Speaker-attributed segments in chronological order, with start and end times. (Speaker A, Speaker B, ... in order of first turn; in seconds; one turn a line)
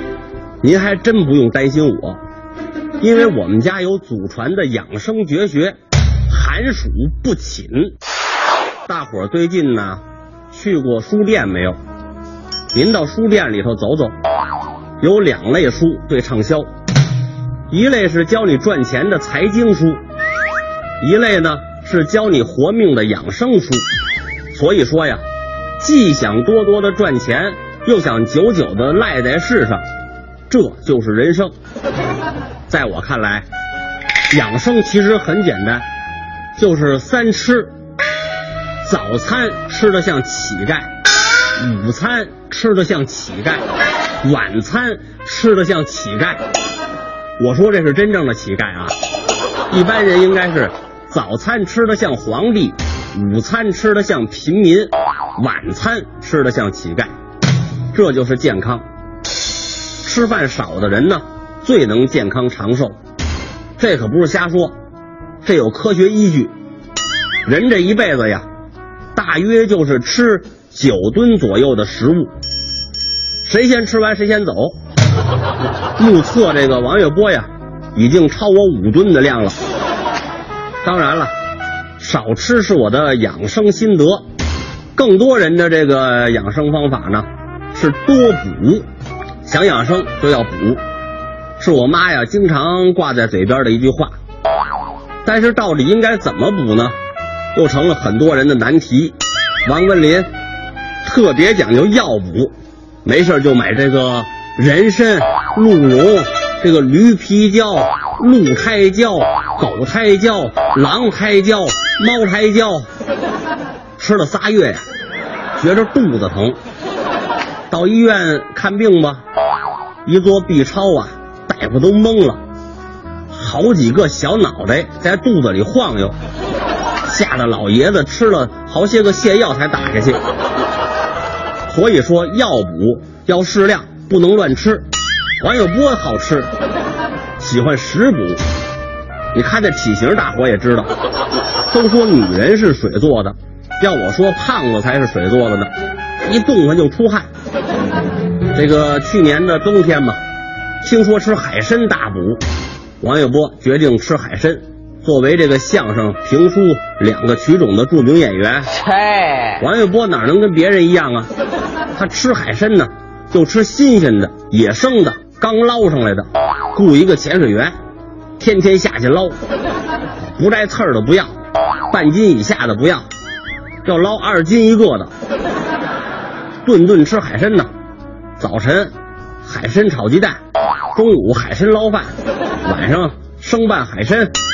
Speaker A: 0.6-2.2
Speaker A: 3.0-5.8
Speaker A: 6.3-7.9
Speaker A: 8.9-10.0
Speaker A: 10.5-11.8
Speaker A: 12.7-14.1
Speaker A: 15.0-16.7
Speaker A: 17.7-20.0
Speaker A: 21.0-23.8
Speaker A: 24.5-25.2
Speaker A: 25.8-29.9
Speaker A: 30.5-31.5
Speaker A: 32.7-33.5
Speaker A: 34.3-35.9
Speaker A: 36.6-37.7
Speaker A: 38.8-40.9
Speaker A: 41.6-43.7
Speaker A: 44.2-46.4
Speaker A: 47.4-48.9
Speaker A: 49.7-57.1
Speaker A: 57.9-58.9
Speaker A: 60.0-63.0
Speaker A: 63.8-64.8
Speaker A: 65.4-66.5
Speaker A: 67.5-68.5
Speaker A: 69.2-72.3
Speaker A: 73.5-74.8
Speaker A: 76.0-79.6
Speaker A: 80.8-81.3
Speaker A: 82.0-84.2
Speaker A: 85.0-88.9
Speaker A: 89.5-90.8
Speaker A: 91.6-94.1
Speaker A: 95.2-97.0
Speaker A: 97.5-100.3
Speaker A: 101.0-102.5
Speaker A: 103.0-112.9
Speaker A: 114.0-114.8
Speaker A: 115.6-116.6
Speaker A: 117.7-119.2
Speaker A: 120.1-122.4
Speaker A: 123.3-126.2
Speaker A: 127.0-130.2
Speaker A: 131.7-134.9
Speaker A: 135.4-136.5
Speaker A: 137.4-138.4
Speaker A: 139.3-140.9
Speaker A: 141.7-145.7
Speaker A: 146.2-147.3
Speaker A: 148.5-150.2
Speaker A: 150.8-152.4
Speaker A: 153.0-158.7
Speaker A: 159.6-161.3
Speaker A: 161.9-167.8
Speaker A: 168.4-169.4
Speaker A: 170.3-171.3
Speaker A: 171.9-173.1
Speaker A: 173.8-175.1
Speaker A: 176.6-177.7
Speaker A: 178.4-178.9
Speaker A: 179.4-180.4
Speaker A: 180.9-182.1
Speaker A: 182.7-184.3